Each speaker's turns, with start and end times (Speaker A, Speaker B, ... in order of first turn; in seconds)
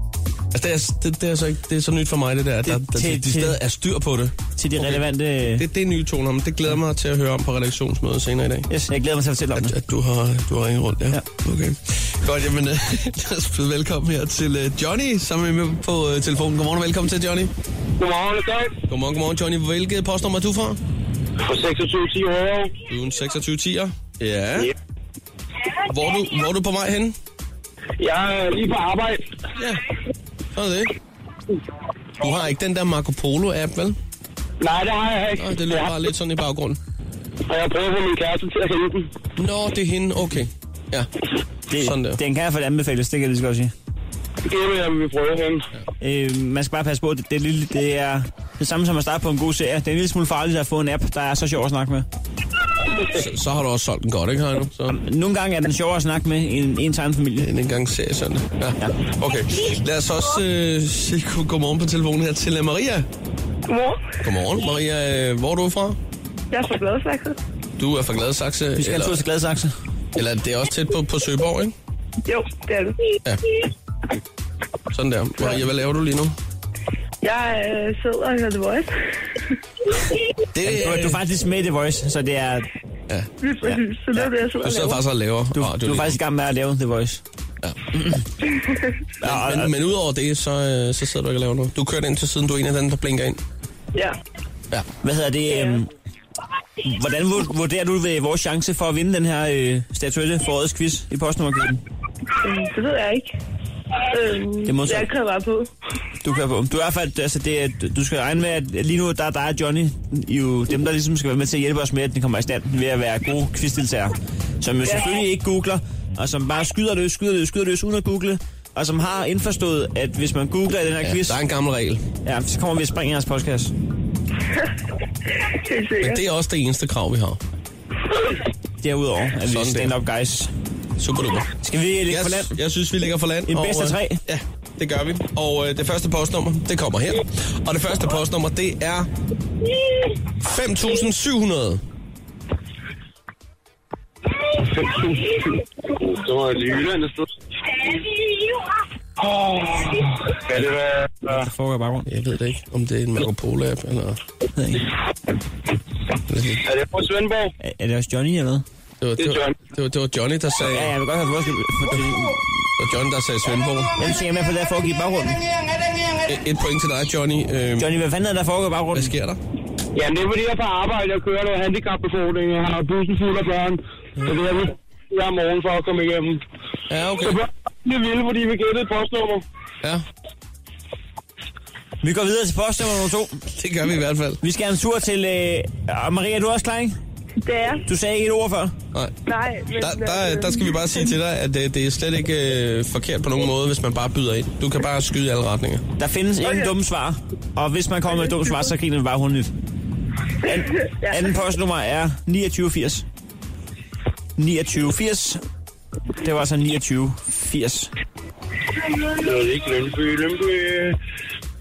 Speaker A: 0.5-8.7, 9.6-17.5, 18.9-20.8, 22.9-24.7, 25.9-27.2, 29.6-29.8, 30.5-30.9, 32.2-34.0, 35.4-36.8, 39.4-41.1, 41.8-42.2, 53.1-55.0, 57.4-63.1, 64.2-66.0, 67.8-69.2, 70.2-71.8, 74.9-76.4, 80.5-81.2, 83.1-83.8, 84.6-86.2, 89.2-93.4, 121.0-122.0, 126.0-127.4, 129.5-130.0, 131.0-131.5, 132.1-139.1, 140.4-141.8, 152.1-154.2, 156.3-156.7, 159.0-160.9, 162.8-164.0, 166.3-167.9, 168.9-169.4, 176.9-177.4, 183.5-184.4, 189.8-195.8
Speaker B: 2.7-3.6, 4.6-5.7, 8.7-9.8, 41.7-43.7, 46.0-52.1, 54.9-57.5, 68.8-69.7, 80.7-82.7, 85.5-87.2, 88.0-88.2, 89.2-89.7, 95.0-95.9, 96.8-101.8, 104.7-105.1, 106.2-121.4, 122.2-123.7, 128.8-130.5, 131.6-132.6, 133.5-134.2, 151.3-152.1, 154.6-154.9, 157.6-158.7, 160.6-162.4, 164.0-165.4, 167.8-169.1, 182.0-183.4, 184.4-187.0, 187.9-188.8, 196.0-199.5, 200.4-203.1, 204.4-205.4, 206.2-207.9
Speaker C: 18.0-18.7, 21.4-22.7, 28.0-29.2, 34.6-35.9, 37.5-39.1, 44.5-45.7, 144.8-145.3, 146.0-147.1, 149.2-151.4, 156.7-157.5, 159.2-159.5, 169.9-176.4, 177.2-179.4, 209.2-210.9
Speaker D: 63.7-64.1, 66.5-67.4, 72.3-73.1, 77.2-78.9, 83.4-85.0, 95.5-95.8, 102.4-103.3, 104.1-105.7, 125.6-126.2, 187.4-187.8, 189.3-191.1, 196.4-196.7, 198.3-198.7, 201.0-201.3